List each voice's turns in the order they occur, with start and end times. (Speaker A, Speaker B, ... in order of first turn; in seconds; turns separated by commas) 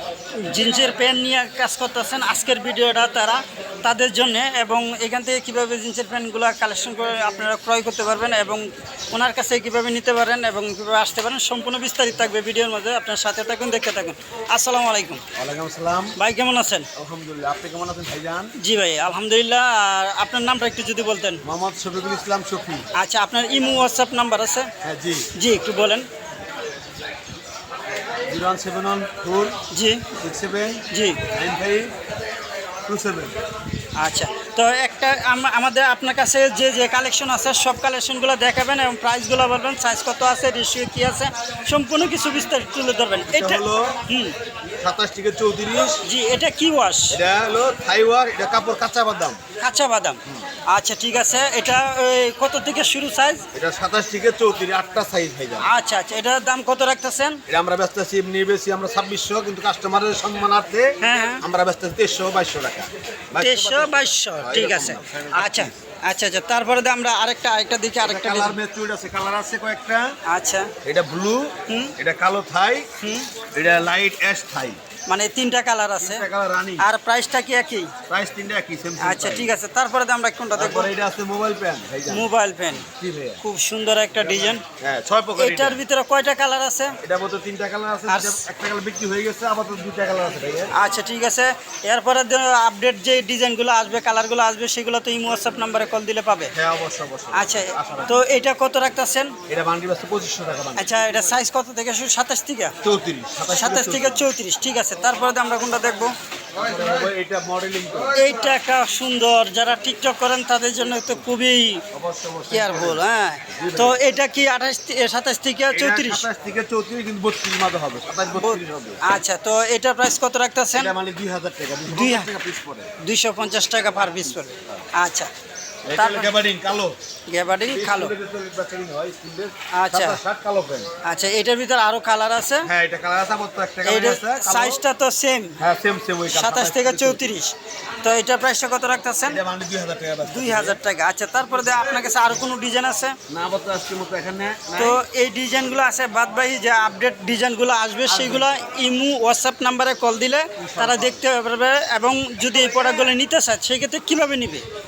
Speaker A: 0.4-15.2, Speaker B: 15.3-16.1, Speaker A: 16.2-16.9, Speaker B: 16.9-18.5, Speaker A: 18.6-21.4, Speaker B: 21.4-22.9, Speaker A: 22.9-24.7, Speaker B: 24.8-25.3, Speaker A: 25.3-26.1, Speaker B: 28.3-29.6, Speaker A: 29.7-30.0, Speaker B: 30.1-31.9, Speaker A: 30.9-31.2, Speaker B: 32.9-33.3, Speaker A: 34.0-44.3, Speaker B: 43.2-44.0, Speaker B: 44.8-46.0, Speaker A: 46.0-47.2, Speaker B: 47.1-49.4, Speaker A: 49.6-53.4, Speaker B: 53.5-55.7, Speaker A: 55.6-57.4, Speaker B: 57.5-65.8, Speaker A: 61.0-61.4, Speaker A: 63.4-68.6, Speaker B: 68.0-70.1, Speaker A: 70.3-70.7, Speaker B: 70.8-72.9, Speaker A: 71.7-71.9, Speaker A: 73.0-73.3, Speaker B: 73.5-74.8, Speaker A: 75.1-76.2, Speaker B: 76.0-76.9, Speaker A: 76.8-77.9, Speaker B: 78.1-79.5, Speaker A: 79.0-80.9, Speaker B: 80.5-83.4, Speaker A: 82.1-82.8, Speaker A: 83.4-84.6, Speaker B: 84.6-85.8, Speaker A: 85.3-87.0, Speaker B: 87.0-90.7, Speaker A: 88.1-88.4, Speaker A: 90.7-96.5, Speaker B: 96.5-98.2, Speaker A: 97.3-99.3, Speaker B: 99.5-101.0, Speaker A: 100.8-102.7, Speaker B: 102.8-104.3, Speaker A: 103.5-106.1, Speaker B: 106.5-108.2, Speaker A: 108.1-111.8, Speaker B: 111.9-114.0, Speaker A: 112.5-116.2, Speaker B: 115.7-119.0, Speaker A: 118.3-120.9, Speaker B: 120.7-122.9, Speaker A: 121.9-122.3, Speaker A: 123.0-125.3, Speaker B: 124.0-124.8, Speaker B: 125.8-127.0, Speaker A: 125.9-126.3, Speaker A: 127.3-128.1, Speaker B: 127.6-130.9, Speaker A: 129.7-130.2, Speaker A: 131.0-132.7, Speaker B: 132.7-134.8, Speaker A: 133.8-135.6, Speaker B: 135.6-137.3, Speaker A: 136.3-139.4, Speaker B: 139.2-140.8, Speaker A: 140.2-143.1, Speaker B: 143.3-145.0, Speaker A: 144.8-154.6, Speaker B: 148.1-148.5, Speaker B: 150.6-151.2